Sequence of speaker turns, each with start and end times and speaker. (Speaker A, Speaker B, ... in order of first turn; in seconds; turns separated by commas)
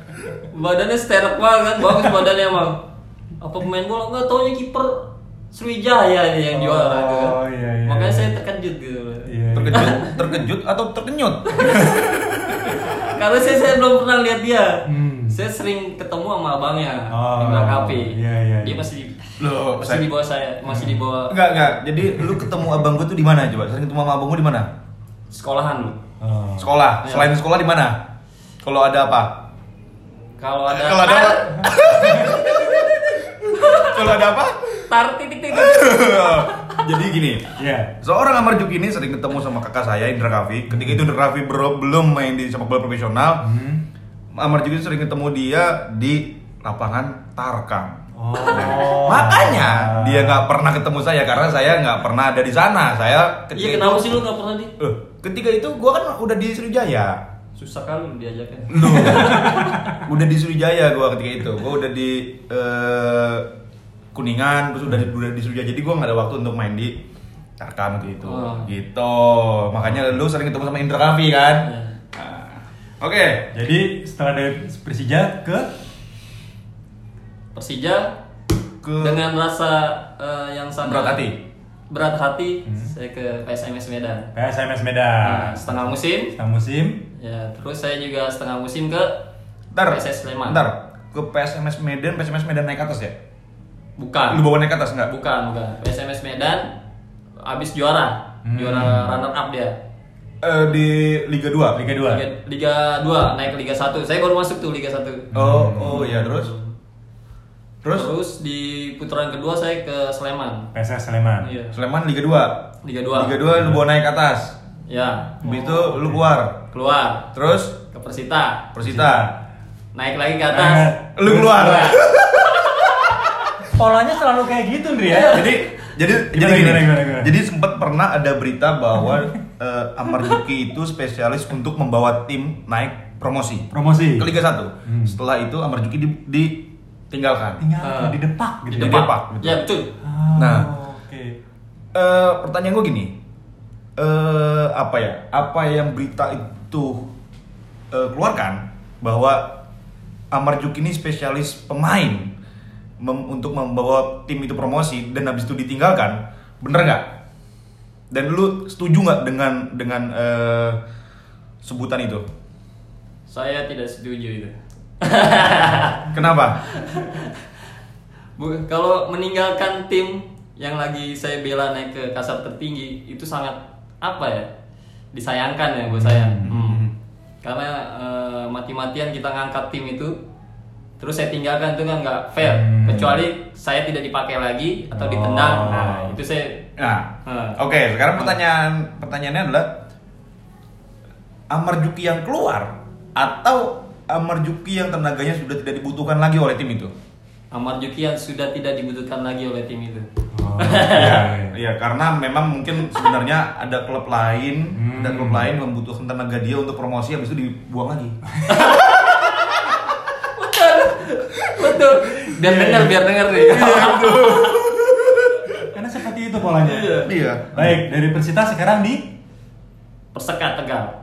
Speaker A: 0.3-2.8, Speaker A: 3.4-10.1, Speaker B: 6.5-8.3, Speaker B: 9.2-10.2, Speaker C: 9.5-13.0, Speaker A: 11.6-11.9, Speaker A: 12.7-21.4, Speaker B: 14.8-15.4, Speaker B: 17.1-18.9, Speaker C: 19.4-20.1, Speaker B: 20.7-21.0, Speaker C: 21.3-24.7, Speaker A: 25.3-26.0, Speaker B: 26.2-26.7, Speaker C: 26.6-28.0, Speaker A: 27.0-27.3, Speaker C: 28.6-29.4, Speaker A: 30.4-31.8, Speaker C: 30.7-34.9, Speaker B: 32.0-32.4, Speaker A: 33.5-34.0, Speaker A: 34.9-36.8, Speaker C: 35.5-37.5, Speaker B: 37.6-37.9, Speaker C: 38.0-43.4, Speaker B: 40.7-41.0, Speaker B: 43.4-43.8, Speaker C: 44.3-54.2, Speaker B: 48.1-50.4, Speaker A: 53.5-54.7, Speaker C: 54.8-57.2, Speaker A: 57.5-59.7, Speaker C: 58.7-63.5, Speaker B: 58.9-59.9, Speaker C: 64.1-67.0, Speaker C: 67.6-73.5, Speaker A: 68.2-68.7, Speaker A: 71.6-72.0, Speaker B: 73.5-75.7, Speaker A: 77.5-78.1, Speaker C: 78.8-79.3, Speaker A: 79.0-81.2, Speaker C: 80.8-81.4, Speaker A: 81.9-84.3, Speaker B: 82.7-82.9, Speaker B: 84.3-87.0, Speaker A: 85.2-86.3, Speaker A: 87.2-89.2, Speaker C: 89.7-93.2, Speaker A: 89.8-90.6, Speaker A: 94.0-94.4, Speaker C: 94.3-95.1, Speaker A: 95.0-96.7, Speaker A: 97.4-99.8, Speaker B: 98.4-99.1, Speaker C: 100.4-101.8, Speaker B: 101.7-102.2, Speaker A: 102.1-105.3, Speaker B: 105.3-106.1, Speaker C: 105.3-106.5, Speaker A: 105.8-106.7, Speaker C: 107.8-108.1, Speaker A: 107.9-110.7, Speaker B: 110.7-111.5, Speaker A: 111.4-111.8, Speaker C: 111.7-114.5, Speaker A: 112.8-113.4, Speaker A: 114.9-115.7, Speaker C: 115.4-116.5, Speaker B: 115.5-116.2, Speaker A: 116.7-117.3, Speaker C: 117.3-117.7, Speaker A: 117.9-118.7, Speaker C: 118.7-119.2, Speaker B: 118.8-119.3, Speaker A: 119.9-122.0, Speaker B: 120.5-122.0, Speaker C: 121.2-123.3, Speaker B: 123.6-125.5, Speaker A: 125.1-125.7, Speaker C: 125.3-137.6, Speaker B: 126.3-127.3, Speaker B: 133.7-134.3, Speaker B: 134.8-135.2, Speaker B: 137.6-139.1, Speaker A: 137.8-138.2, Speaker A: 138.7-139.9, Speaker C: 138.8-139.6, Speaker B: 140.0-141.4, Speaker C: 140.3-140.7, Speaker C: 141.9-143.1, Speaker C: 144.0-147.1, Speaker C: 147.9-149.6, Speaker C: 150.3-152.3, Speaker C: 153.0-157.1, Speaker C: 158.1-160.8, Speaker C: 161.6-162.2, Speaker A: 163.3-166.1, Speaker C: 166.1-166.6, Speaker A: 166.7-167.4, Speaker A: 168.4-174.5, Speaker A: 175.1-176.8, Speaker B: 175.9-176.5, Speaker C: 176.5-176.9, Speaker A: 177.4-180.2, Speaker A: 181.0-186.7, Speaker B: 182.4-183.2, Speaker B: 184.9-186.2, Speaker C: 186.8-189.7, Speaker A: 187.2-187.6, Speaker C: 191.5-196.9, Speaker A: 197.5-200.1, Speaker B: 200.3-201.5, Speaker A: 200.6-201.2, Speaker C: 200.8-208.2, Speaker B: 204.7-205.4, Speaker A: 208.5-209.7, Speaker A: 210.2-214.6, Speaker B: 212.2-212.9, Speaker C: 213.3-215.7, Speaker B: 215.7-217.0, Speaker A: 216.6-217.1, Speaker C: 217.0-217.8, Speaker B: 217.5-219.1, Speaker A: 220.1-220.9